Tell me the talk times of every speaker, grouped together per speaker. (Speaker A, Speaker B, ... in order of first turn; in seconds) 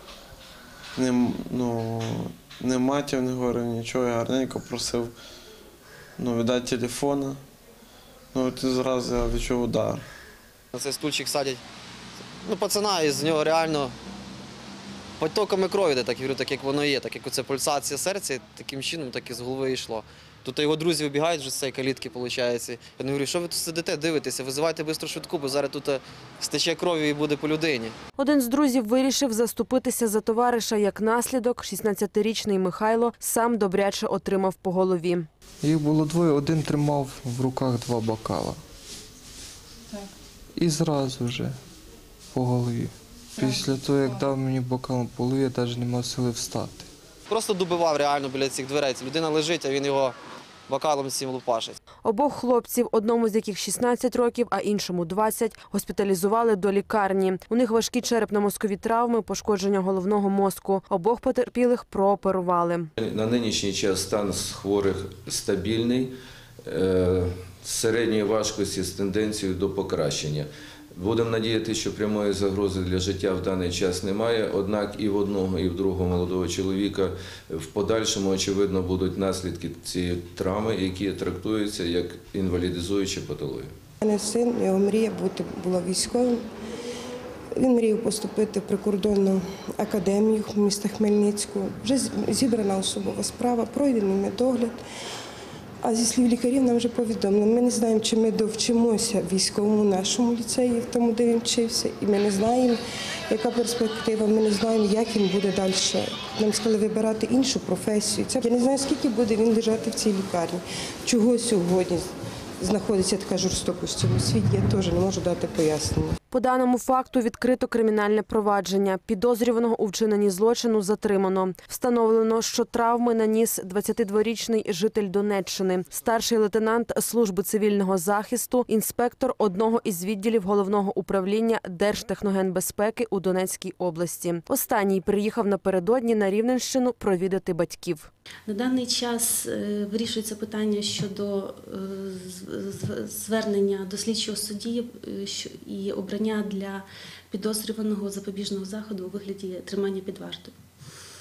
Speaker A: 0.9-5.1, 6.2-7.4, 8.3-10.1
Speaker B: 10.7-11.6, 12.4-13.9, 15.2-27.9, 47.3-50.1, 50.7-51.8
Speaker C: 28.2-35.3, 52.0-62.9, 116.3-138.1
Speaker D: 35.6-38.6, 40.5-41.5, 42.3-46.9
Speaker E: 63.3-66.1, 66.7-70.4, 71.0-83.7
Speaker F: 84.0-86.4, 87.5-94.8, 95.8-112.0, 112.6-116.2
Speaker G: 138.5-150.6